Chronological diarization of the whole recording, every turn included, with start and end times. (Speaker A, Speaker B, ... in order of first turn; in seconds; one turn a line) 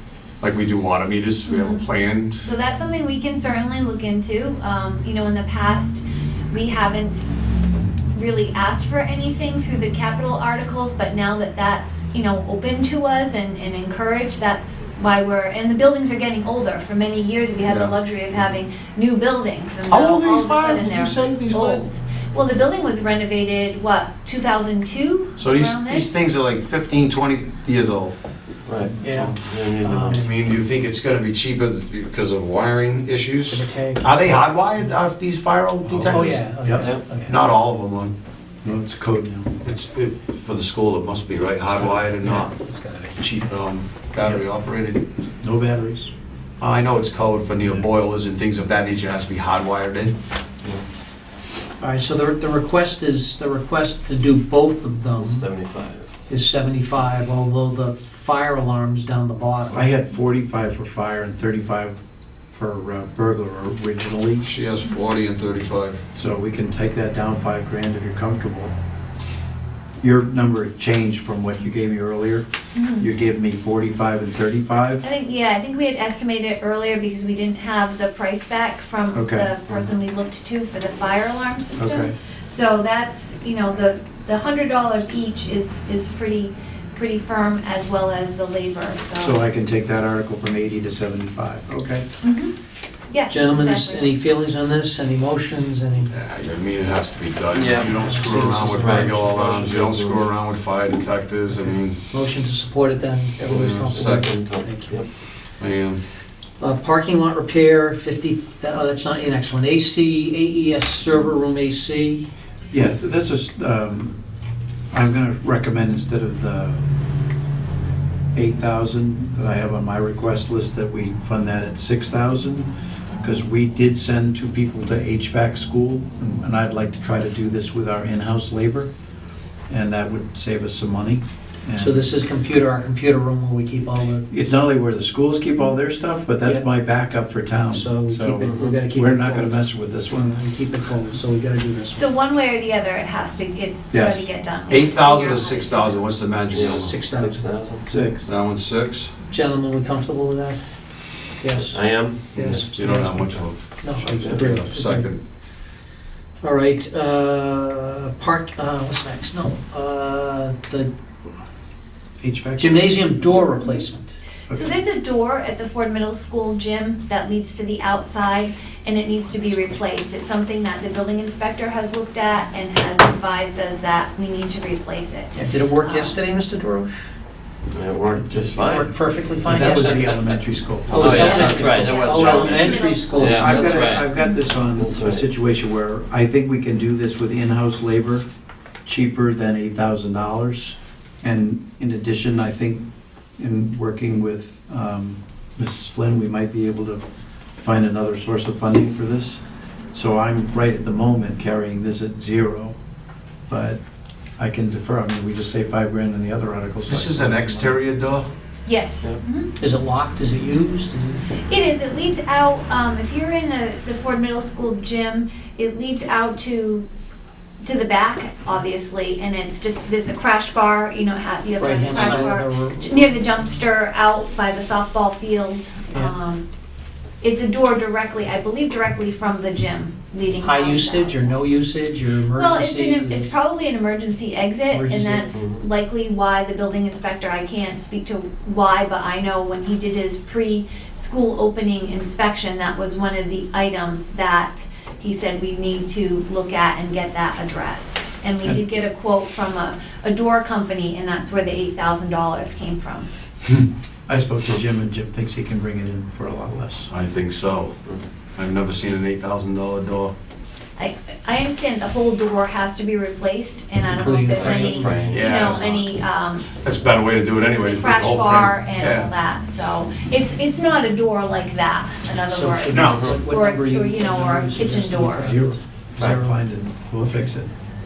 Speaker A: 0.4-2.5
Speaker B: 1.4-1.8
Speaker B: 2.4-7.2
Speaker B: 8.1-26.1
Speaker A: 17.6-18.5
Speaker A: 19.9-21.9
Speaker A: 25.4-28.1
Speaker C: 28.6-30.2
Speaker A: 29.0-29.4
Speaker D: 29.0-30.3
Speaker A: 30.1-36.5
Speaker D: 33.5-34.2
Speaker D: 36.0-37.4
Speaker E: 36.0-36.9
Speaker C: 36.8-37.1
Speaker A: 37.2-38.1
Speaker E: 38.6-39.5
Speaker A: 39.6-42.5
Speaker D: 41.7-43.1
Speaker A: 43.1-45.0
Speaker E: 45.4-46.1
Speaker A: 46.6-50.1
Speaker D: 51.8-55.5
Speaker C: 55.1-56.1
Speaker D: 56.3-59.9
Speaker E: 59.7-64.4
Speaker A: 64.4-66.0
Speaker E: 66.1-68.7
Speaker E: 70.0-72.5
Speaker B: 72.7-73.1
Speaker E: 73.0-75.0
Speaker B: 75.0-89.4
Speaker E: 79.1-79.6
Speaker E: 81.8-82.2
Speaker E: 89.2-92.1
Speaker B: 92.2-92.5
Speaker B: 93.1-94.1
Speaker D: 93.3-96.1
Speaker A: 96.1-102.0
Speaker C: 97.5-98.0
Speaker D: 97.8-99.3
Speaker C: 98.7-100.3
Speaker D: 102.1-105.0
Speaker C: 103.4-105.0
Speaker A: 103.5-104.3
Speaker A: 105.6-106.0
Speaker D: 106.6-112.3
Speaker E: 112.7-114.2
Speaker E: 114.9-116.8
Speaker E: 118.3-122.7
Speaker E: 123.2-128.9
Speaker E: 129.7-132.0
Speaker D: 131.8-134.3
Speaker E: 134.3-140.4
Speaker D: 136.4-136.7
Speaker D: 137.7-142.1
Speaker C: 138.4-138.8
Speaker B: 141.9-146.1
Speaker E: 143.9-144.3
Speaker A: 144.7-146.9
Speaker C: 146.5-147.9
Speaker D: 146.5-147.4
Speaker E: 147.8-148.3
Speaker A: 148.2-149.1
Speaker D: 149.3-150.6
Speaker D: 151.4-155.1
Speaker C: 151.5-152.7
Speaker A: 152.3-155.2
Speaker C: 154.2-154.5
Speaker D: 156.4-160.9
Speaker E: 162.2-163.4
Speaker D: 162.6-164.1
Speaker E: 164.5-164.8
Speaker B: 164.5-176.2
Speaker D: 175.3-177.1
Speaker C: 177.7-178.9
Speaker D: 178.5-180.2
Speaker E: 179.4-181.7
Speaker C: 179.8-180.2
Speaker D: 180.9-183.8
Speaker C: 180.9-184.1
Speaker B: 181.1-184.4
Speaker E: 183.3-188.2
Speaker C: 184.7-185.3
Speaker E: 188.8-192.8
Speaker E: 193.4-197.0
Speaker E: 197.6-199.4
Speaker E: 199.9-202.7
Speaker E: 203.5-203.8
Speaker E: 204.4-207.8
Speaker A: 206.9-208.3
Speaker B: 208.7-209.5
Speaker D: 209.6-211.2
Speaker B: 211.5-216.9
Speaker B: 217.6-226.4
Speaker D: 221.6-223.4
Speaker B: 227.2-231.4
Speaker D: 230.4-233.3
Speaker B: 232.3-253.1
Speaker D: 234.7-235.4
Speaker C: 235.3-235.6
Speaker E: 253.5-256.9
Speaker A: 256.9-257.8
Speaker A: 258.4-260.1
Speaker B: 260.8-266.5
Speaker D: 263.8-265.3
Speaker C: 264.3-265.2
Speaker A: 265.0-265.9
Speaker A: 266.5-269.1
Speaker B: 267.4-275.3
Speaker D: 272.3-276.4
Speaker A: 272.7-273.1
Speaker E: 275.2-277.5